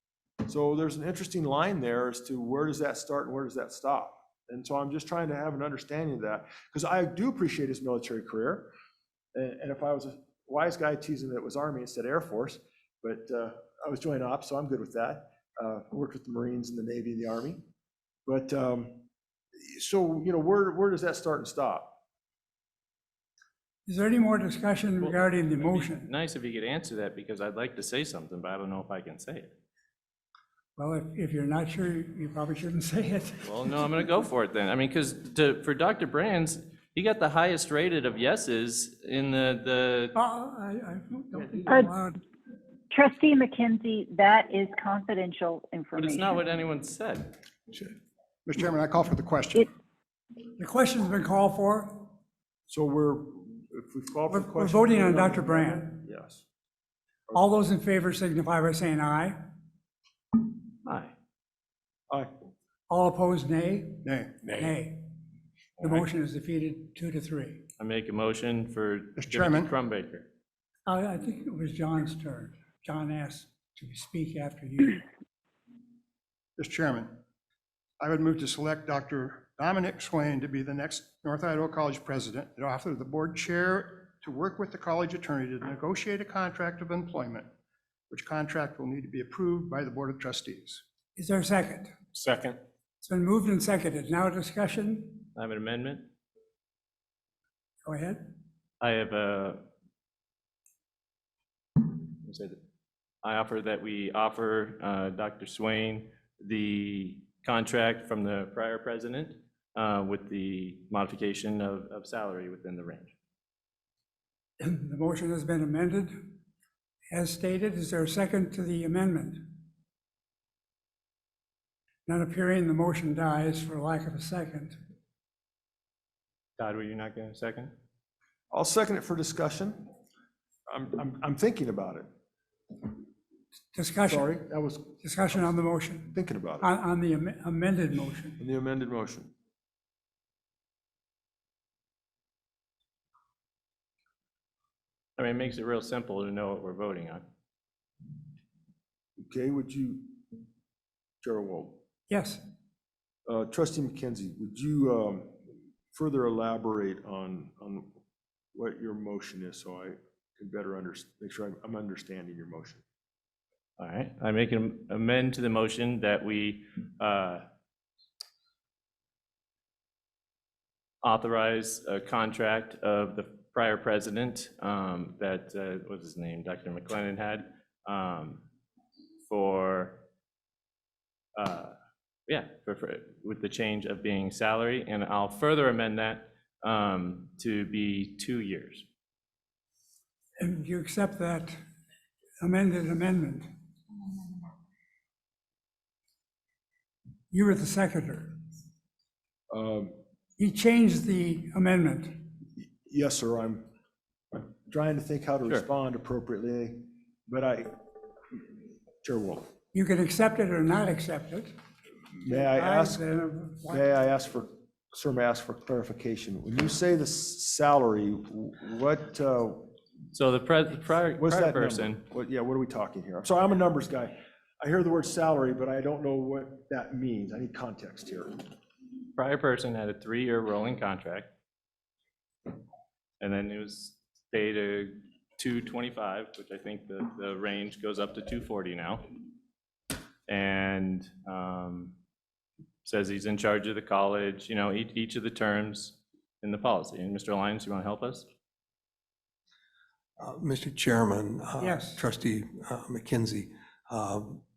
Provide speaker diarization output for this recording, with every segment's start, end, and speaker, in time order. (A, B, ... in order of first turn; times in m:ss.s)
0:00.5-0:08.7 A
0:09.4-0:17.6 A
0:18.3-0:19.0 A
0:19.6-0:21.9 A
0:23.8-0:26.1 B
0:25.0-0:29.5 C
0:30.8-0:33.6 B
0:33.4-0:40.1 C
0:40.1-0:42.2 B
0:41.6-0:41.9 D
0:42.9-0:46.4 D
0:45.9-0:47.3 C
0:48.4-0:49.7 E
0:50.6-0:52.1 B
0:52.7-0:56.4 A
0:54.3-0:56.0 B
0:57.3-0:59.4 B
1:00.8-1:01.1 C
1:02.9-1:05.1 B
1:04.0-1:04.4 E
1:05.8-1:06.1 C
1:05.8-1:07.6 B
1:07.8-1:10.3 C
1:09.2-1:09.7 E
1:10.9-1:15.0 B
1:16.6-1:17.2 E
1:18.0-1:27.5 E
1:28.1-1:30.8 E
1:31.2-1:31.9 B
1:33.0-1:35.3 B
1:35.4-1:36.1 C
1:37.8-1:38.2 B
1:38.8-1:39.6 C
1:41.8-1:42.6 C
1:43.2-1:53.1 C
1:54.6-1:56.4 B
1:57.1-1:59.5 B
2:02.1-2:04.8 B
2:06.6-2:07.7 C
2:08.5-2:09.9 A
2:10.7-2:12.1 A
2:13.7-2:14.4 B
2:14.1-2:16.7 A
2:15.0-2:18.4 B
2:18.4-2:19.3 A
2:25.2-2:27.2 C
2:29.2-2:30.2 A
2:31.2-2:31.8 A
2:32.1-2:32.4 B
2:33.3-2:35.4 A
2:35.9-2:38.0 A
2:38.5-2:42.8 A
2:43.8-2:47.4 C
2:51.0-2:58.4 C
2:59.3-3:00.0 C
3:01.4-3:01.7 C
3:02.3-3:08.8 C
3:10.4-3:11.6 B
3:12.4-3:13.5 B
3:17.3-3:18.4 B
3:19.5-3:19.9 A
3:20.4-3:22.2 B
3:22.6-3:23.7 A
3:24.3-3:27.8 A
3:29.0-3:29.5 A
3:29.7-3:31.5 B
3:32.1-3:33.0 A
3:32.3-3:33.9 B
3:33.6-3:39.7 A
3:40.1-3:42.0 C
3:41.2-3:48.4 A
3:49.2-3:51.3 C
3:53.2-3:59.0 C
4:00.3-4:01.9 C
4:02.8-4:08.3 C
4:10.2-4:14.4 F
4:11.6-4:12.0 B